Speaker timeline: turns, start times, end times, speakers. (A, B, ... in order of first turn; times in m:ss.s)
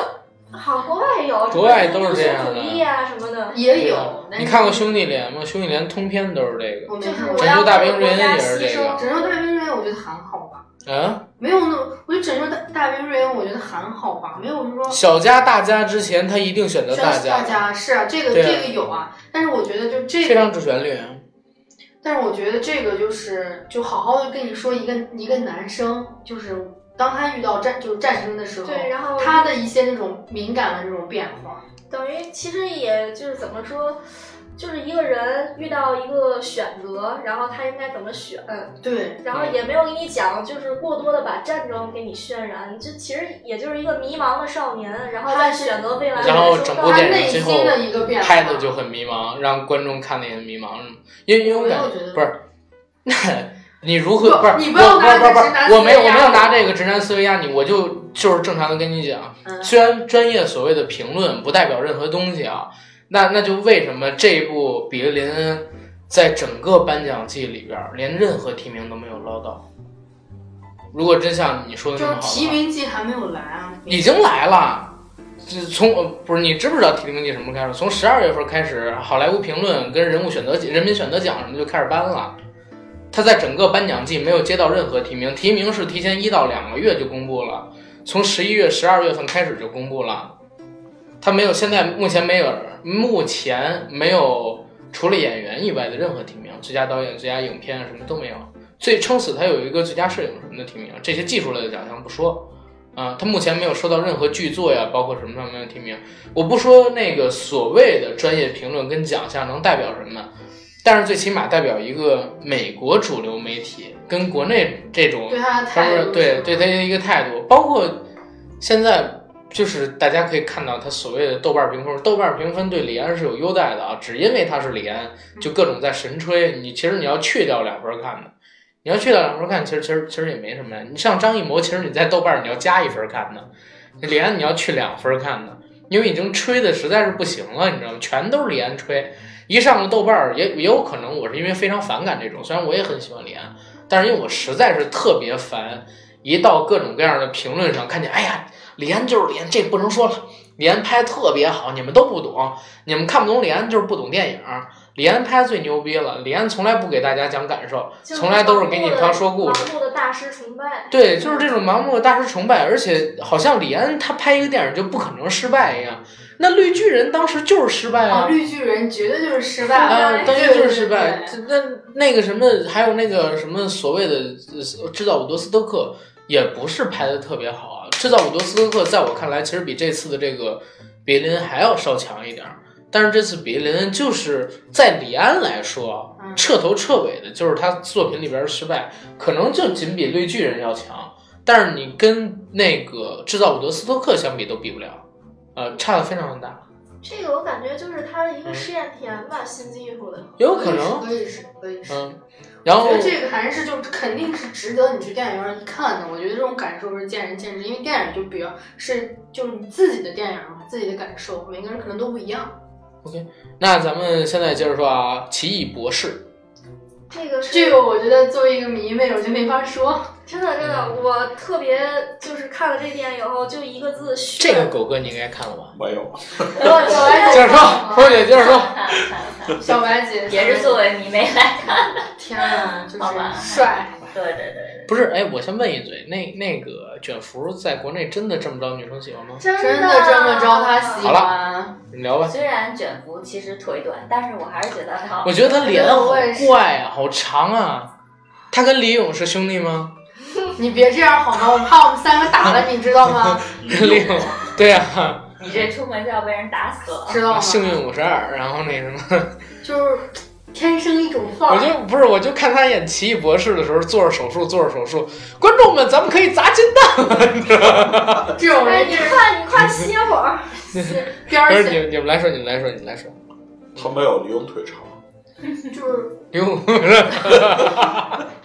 0:00.5-0:03.6 A
0:01.5-0:02.9 B
0:03.5-0:04.9 C
0:03.7-0:09.0 B
0:06.9-0:10.6 C
0:07.0-0:09.3 A
0:10.8-0:11.2 B
0:11.4-0:15.0 C
0:14.9-0:17.6 B
0:16.9-0:20.5 C
0:18.3-0:18.8 B
0:20.2-0:21.2 B
0:22.0-0:31.6 C
0:28.6-0:29.5 A
0:31.9-0:34.0 A
0:34.6-0:47.4 A
0:38.8-0:39.2 C
0:39.3-0:39.6 B
0:45.2-0:48.7 C
0:46.2-0:52.4 B
0:51.4-0:52.2 C
0:53.0-1:09.6 B
0:54.2-0:56.7 C
0:59.4-0:59.7 C
1:10.9-1:12.6 B
1:12.0-1:14.1 C
1:13.9-1:22.4 B
1:23.1-1:30.4 B
1:31.2-1:50.3 B
1:50.8-1:58.1 B
1:55.3-1:56.7 C
1:58.6-2:13.5 B
2:14.0-2:39.7 B
2:38.0-2:40.9 A
2:40.9-2:48.4 B
2:41.2-2:41.5 C
2:48.1-2:51.4 C
2:49.6-2:50.4 A
2:49.9-3:16.6 B
3:06.2-3:06.5 C
3:17.0-3:20.4 A
3:20.4-3:21.1 B
3:20.4-3:22.0 C
3:21.9-3:23.2 B
3:22.7-3:32.6 C
3:33.0-3:36.3 B
3:37.1-3:37.8 A
3:37.4-3:40.1 C
3:40.3-3:44.7 A
3:40.6-3:41.0 B
3:44.4-3:45.8 B
3:45.7-3:46.8 D
3:46.5-3:48.1 C
3:46.6-3:55.0 E
3:46.8-3:47.9 A
3:47.2-3:48.8 B
3:49.6-3:50.8 C
3:52.1-3:54.0 C
3:54.9-3:59.4 B
3:59.4-4:01.1 A
3:59.6-4:01.8 C
4:01.0-4:01.4 B
4:01.9-4:02.4 B
4:02.2-4:06.0 E
4:05.2-4:07.9 B
4:05.6-4:06.6 C
4:08.5-4:09.9 B
4:10.6-4:13.5 C
4:13.3-4:15.4 B
4:13.6-4:14.2 D
4:15.4-4:17.2 E
4:17.1-4:17.8 C
4:17.3-4:19.4 B
4:19.6-4:21.7 C
4:21.5-4:28.4 B
4:28.3-4:29.3 C
4:28.5-4:30.8 A
4:30.7-4:33.2 B
4:30.9-4:31.8 C
4:33.7-4:35.0 D
4:35.6-4:36.2 C
4:36.3-4:38.2 B